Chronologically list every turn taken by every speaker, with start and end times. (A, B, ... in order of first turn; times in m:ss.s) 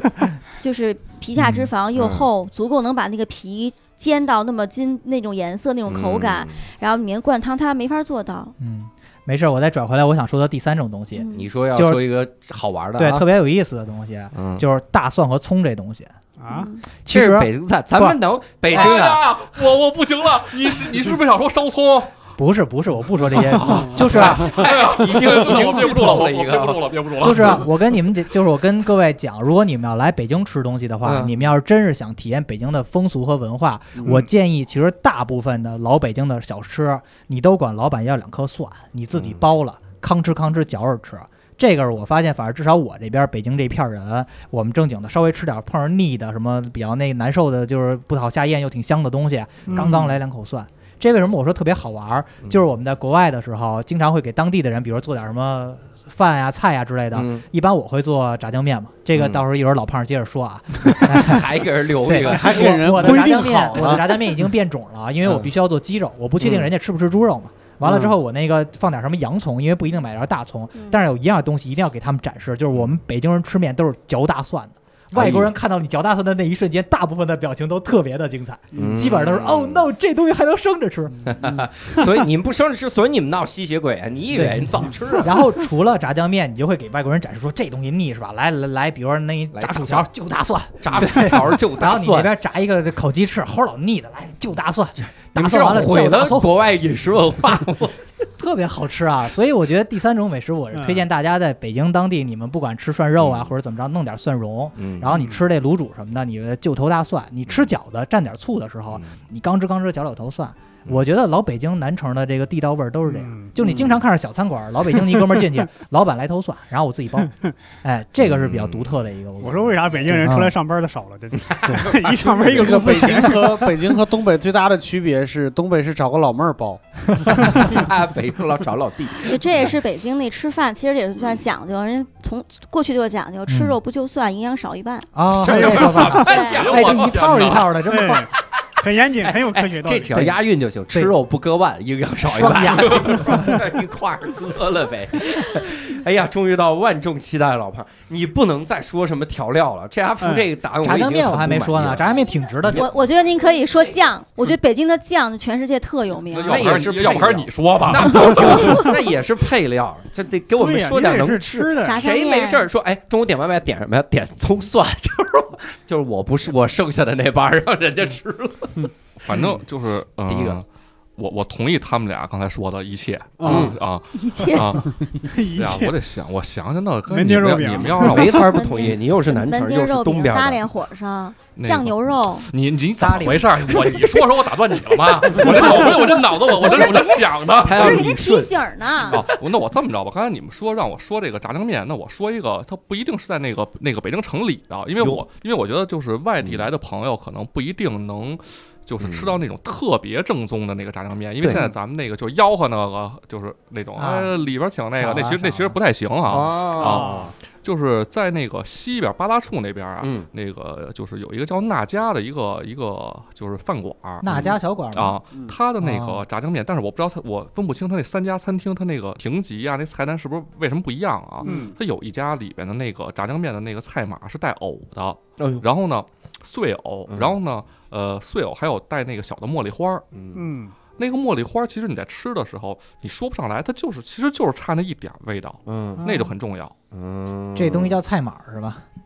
0:00.6-0:08.5 A
0:01.4-0:01.7 B
0:02.0-0:02.3 C
0:05.9-0:06.6 C
0:08.6-0:12.0 B
0:11.1-0:11.5 A
0:11.3-0:13.3 C
0:13.0-0:16.1 B
0:14.3-0:14.6 C
0:16.4-0:16.7 D
0:16.5-0:16.8 A
0:17.0-0:18.2 B
0:17.1-0:19.3 C
0:18.7-0:22.2 E
0:22.4-0:24.5 B
0:23.6-0:26.8 C
0:23.7-0:27.7 E
0:27.2-1:01.5 B
0:31.0-0:31.5 C
0:39.1-0:39.4 C
0:49.7-0:50.2 D
0:57.1-0:57.4 C
0:59.1-0:59.4 C
1:00.8-1:02.7 C
1:02.0-1:21.4 B
1:02.2-1:04.1 F
1:03.3-1:03.8 A
1:06.4-1:06.7 C
1:07.8-1:08.1 F
1:10.8-1:11.0 A
1:12.7-1:13.0 C
1:15.1-1:15.5 C
1:18.8-1:19.9 C
1:18.8-1:19.0 F
1:21.3-1:25.6 C
1:24.3-1:36.5 B
1:29.5-1:30.1 C
1:30.8-1:32.3 C
1:35.1-1:38.1 C
1:38.4-2:00.6 B
1:40.7-1:41.1 D
1:43.2-1:43.5 C
1:44.8-1:45.1 C
1:45.1-1:45.4 D
1:53.1-1:53.5 D
1:53.6-1:54.0 C
1:58.2-1:58.9 C
1:59.4-2:03.8 D
1:59.9-2:00.3 C
2:01.4-2:02.7 C
2:02.4-2:07.3 F
2:07.3-2:07.6 B
2:07.5-2:09.8 C
2:09.2-2:15.1 A
2:13.5-2:13.8 B
2:15.1-2:18.3 B
2:15.4-2:17.2 C
2:15.4-2:16.2 D
2:16.0-2:17.8 E
2:16.1-2:16.6 A
2:17.9-2:20.2 D
2:19.2-2:32.1 C
2:20.1-2:20.4 B
2:22.7-2:23.2 E
2:23.1-2:23.5 B
2:30.2-2:30.5 D
2:30.8-2:32.9 B
2:32.0-2:36.7 A
2:32.6-2:34.0 C
2:36.3-2:38.9 E
2:36.4-2:48.9 C
2:40.6-2:42.1 D
2:41.8-2:42.7 A
2:49.2-2:50.7 E
2:50.3-2:50.6 C
2:51.2-2:58.6 E
2:53.4-2:53.8 F
2:53.4-2:53.8 C
2:54.1-2:54.9 A
2:54.6-2:56.0 D
2:57.1-2:58.3 D
2:58.0-3:00.6 C
2:58.2-3:02.5 A
3:01.6-3:08.2 E
3:03.0-3:03.7 B
3:05.4-3:09.2 C
3:05.4-3:09.2 A
3:09.1-3:50.1 E
3:15.0-3:15.2 C
3:16.4-3:16.7 C
3:19.0-3:19.3 C
3:21.4-3:21.7 C
3:24.0-3:24.3 B
3:24.9-3:25.8 B
3:26.3-3:27.2 C
3:26.8-3:27.3 D
3:30.0-3:30.3 C
3:34.2-3:35.2 B
3:34.3-3:34.6 C
3:35.3-3:35.6 F
3:35.8-3:36.2 B
3:41.4-3:41.8 F
3:41.4-3:41.7 D
3:45.4-3:45.6 C
3:47.1-3:47.4 C
3:50.1-3:50.4 C
3:50.4-3:50.7 D
3:51.0-3:56.7 E
3:55.7-3:56.0 C
3:56.0-3:56.3 D
3:56.9-3:58.0 C
3:57.6-3:58.8 B